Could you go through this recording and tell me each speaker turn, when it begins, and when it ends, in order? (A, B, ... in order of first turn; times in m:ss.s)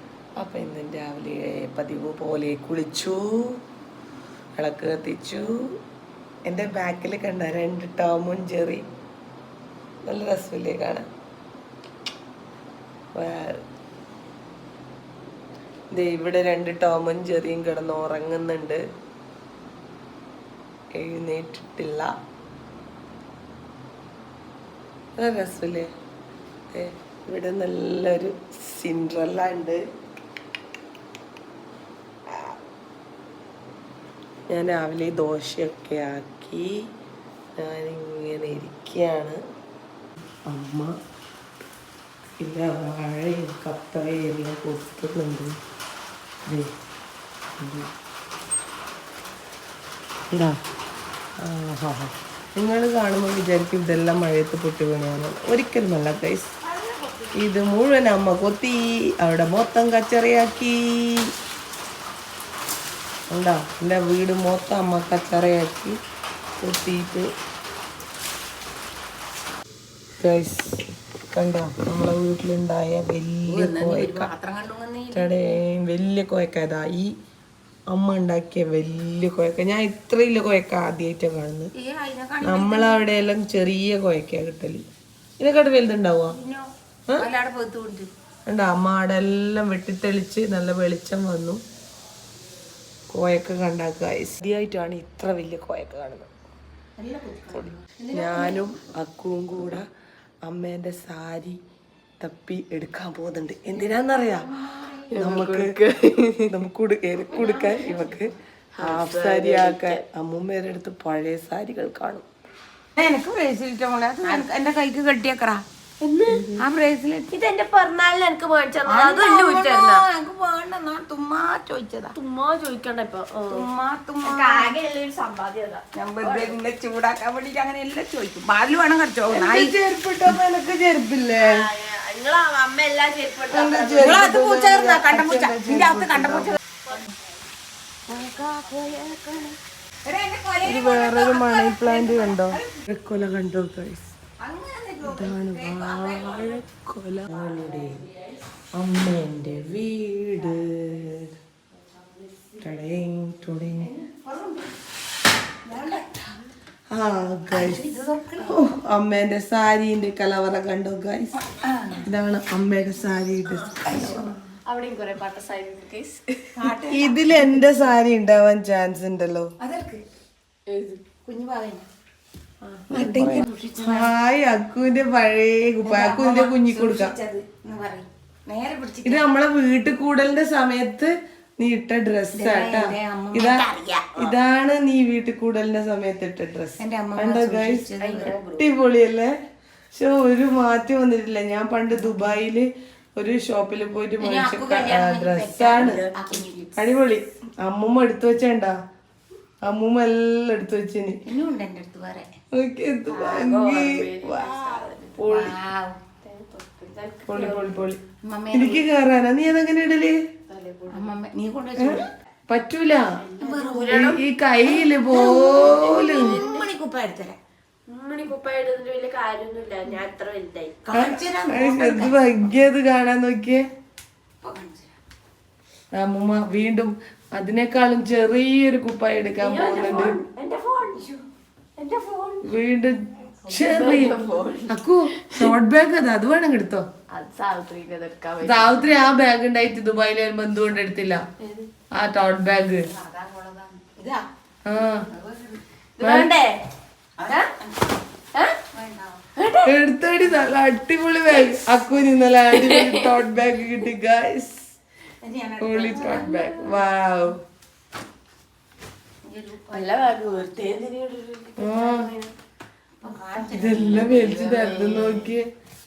0:00.4-0:03.3 A
0:04.6-0:05.5 A
0:06.5-0:08.8 A
0:10.0-0:11.0 A
0:13.1-0:13.6 A
0:15.9-0:18.8 A
0:21.0-0:22.1 A
0:25.2-0:25.9 A
0:26.7-0:29.8 A
0:34.5-0:36.7 A
0:37.6-0:39.4 A
0:40.5-0:40.9 A
0:42.4-0:45.5 A
0:47.6-0:47.9 A
0:50.3-0:50.6 A
0:51.4-0:56.5 A
0:56.6-0:57.5 B
0:57.4-1:01.3 A
1:03.3-1:06.0 A
1:06.6-1:07.3 A
1:10.2-1:14.3 A
1:13.4-1:15.6 B
1:15.1-1:17.1 A
1:17.9-1:21.7 A
1:21.8-1:23.1 B
1:22.4-1:24.8 A
1:25.4-1:26.4 A
1:26.3-1:28.1 B
1:28.5-1:31.6 A
1:33.1-1:36.3 A
1:37.0-1:38.7 B
1:37.5-1:39.8 A
1:40.4-1:41.6 A
1:42.2-1:44.5 A
1:43.7-1:45.2 B
1:45.1-1:46.6 C
1:45.1-1:45.7 A
1:46.5-1:52.3 A
1:47.3-1:48.4 B
1:48.7-1:50.0 C
1:53.0-1:55.6 B
1:56.0-1:56.5 C
1:56.3-1:56.6 A
1:56.6-1:57.3 B
1:57.3-2:00.0 C
1:58.8-2:02.1 B
2:02.1-2:03.7 C
2:03.5-2:04.7 B
2:04.2-2:06.5 C
2:05.9-2:09.7 B
2:09.3-2:11.5 A
2:11.4-2:14.2 C
2:13.5-2:16.6 A
2:14.0-2:16.6 B
2:18.1-2:22.7 B
2:20.6-2:24.1 A
2:24.4-2:26.6 B
2:25.0-2:28.0 A
2:28.7-2:31.3 A
2:32.6-2:33.9 A
2:33.8-2:34.8 B
2:35.6-2:36.4 B
2:36.9-2:37.8 A
2:37.5-2:38.8 B
2:38.4-2:41.3 A
2:41.4-2:42.1 B
2:42.0-2:44.3 A
2:43.7-2:44.4 B
2:44.6-2:46.6 C
2:46.6-2:47.9 B
2:46.9-2:49.5 A
2:49.6-2:50.0 B
2:50.7-2:51.0 C
2:51.2-2:51.8 B
2:52.9-2:54.2 B
2:52.9-2:57.2 A
2:55.8-2:59.4 B
2:59.0-3:03.6 A
3:02.3-3:04.3 B
3:04.2-3:07.9 A
3:06.8-3:08.4 B
3:08.0-3:08.7 C
3:08.6-3:09.3 A
3:09.9-3:16.0 A
3:12.0-3:12.3 B
3:14.2-3:16.9 B
3:15.7-3:16.5 C
3:16.7-3:18.8 A
3:19.6-3:21.2 A
3:21.2-3:22.3 B
3:22.5-3:25.5 A
3:23.1-3:25.5 C
3:25.2-3:26.0 B
3:26.2-3:27.9 C
3:27.2-3:28.0 A
3:28.2-3:28.8 B
3:28.5-3:30.2 A
3:30.5-3:31.1 C
3:30.9-3:32.1 B
3:31.8-3:33.0 A
3:33.3-3:34.0 B
3:33.4-3:34.2 C
3:33.9-3:36.3 A
3:34.6-3:37.4 B
3:35.6-3:36.7 C
3:37.9-3:40.8 C
3:40.8-3:42.4 B
3:40.9-3:43.6 A
3:44.4-3:44.9 B
3:46.0-3:50.2 A
3:49.4-3:51.0 C
3:50.9-3:51.2 B
3:51.8-3:52.5 C
3:52.4-3:56.8 A
3:53.5-3:55.5 C
3:57.1-3:58.9 C
3:58.4-4:01.2 A
4:01.4-4:01.7 C
4:02.0-4:02.9 A
4:02.8-4:05.6 B
4:04.6-4:05.0 A
4:06.0-4:06.6 C
4:06.0-4:06.3 A
4:07.2-4:08.0 B
4:08.7-4:09.2 B
4:09.4-4:09.7 C
4:09.6-4:14.7 A
4:11.3-4:11.6 C
4:12.5-4:13.2 C
4:15.2-4:16.8 B
4:15.6-4:17.4 A
4:15.9-4:16.4 C
4:19.2-4:20.6 B
4:19.7-4:22.3 C
4:21.6-4:22.1 A
4:23.0-4:24.5 B
4:23.5-4:25.4 A
4:23.9-4:25.3 C